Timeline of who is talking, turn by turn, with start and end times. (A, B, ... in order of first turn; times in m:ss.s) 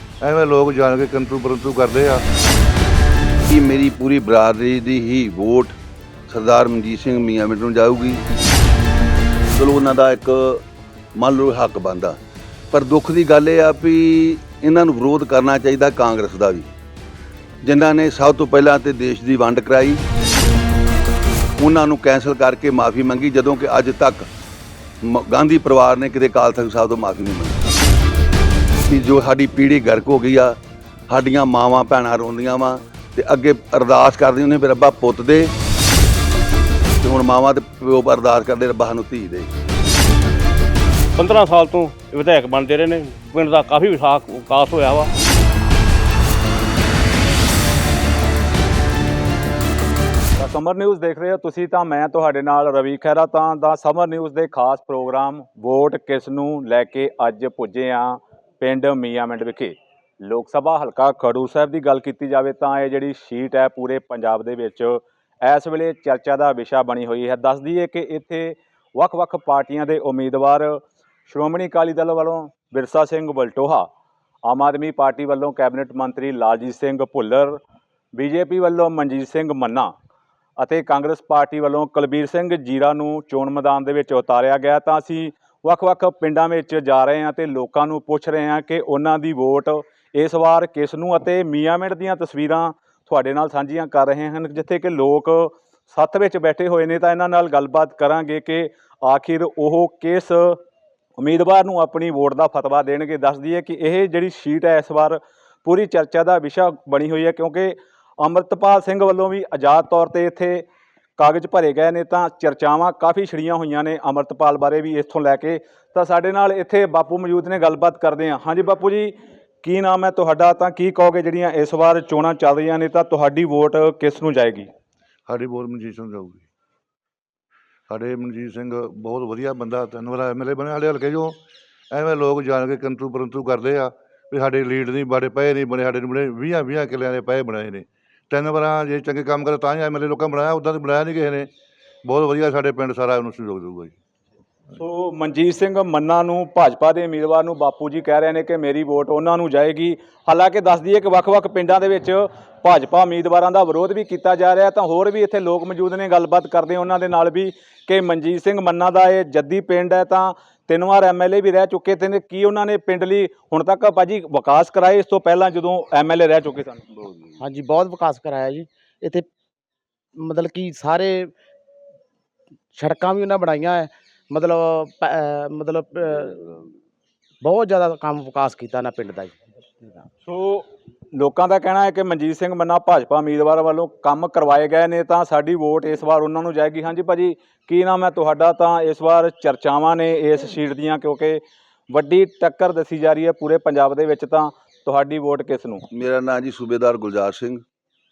0:00.2-0:02.2 A
0:03.5-0:05.8 B
0:06.3-0:08.2 B
0:09.5-0:12.2 B
0:12.7-0:16.7 B
0:17.6-0:20.0 B
0:21.6-0:24.3 B
0:25.0-0:27.7 B
0:28.9-0:30.6 B
0:31.1-0:35.5 B
0:37.0-0:39.5 B
0:41.2-0:45.1 C
0:50.5-0:58.1 D
0:58.7-0:59.7 D
1:00.3-1:04.9 D
1:05.5-1:08.5 D
1:09.0-1:10.8 D
1:11.3-1:13.8 D
1:14.5-1:17.6 D
1:18.2-1:19.8 D
1:20.7-1:40.6 D
1:41.2-1:45.2 D
1:45.7-1:47.7 D
1:48.2-1:50.6 D
1:51.2-1:59.0 D
1:59.7-2:04.6 D
2:05.3-2:06.5 A
2:07.9-2:11.4 A
2:11.9-2:21.5 A
2:22.0-2:24.0 A
2:24.9-2:46.8 D
2:47.4-2:49.3 E
2:50.1-2:51.3 E
2:52.7-2:56.5 E
2:57.4-3:00.1 E
3:01.2-3:11.3 D
3:11.9-3:15.8 D
3:15.9-3:17.6 B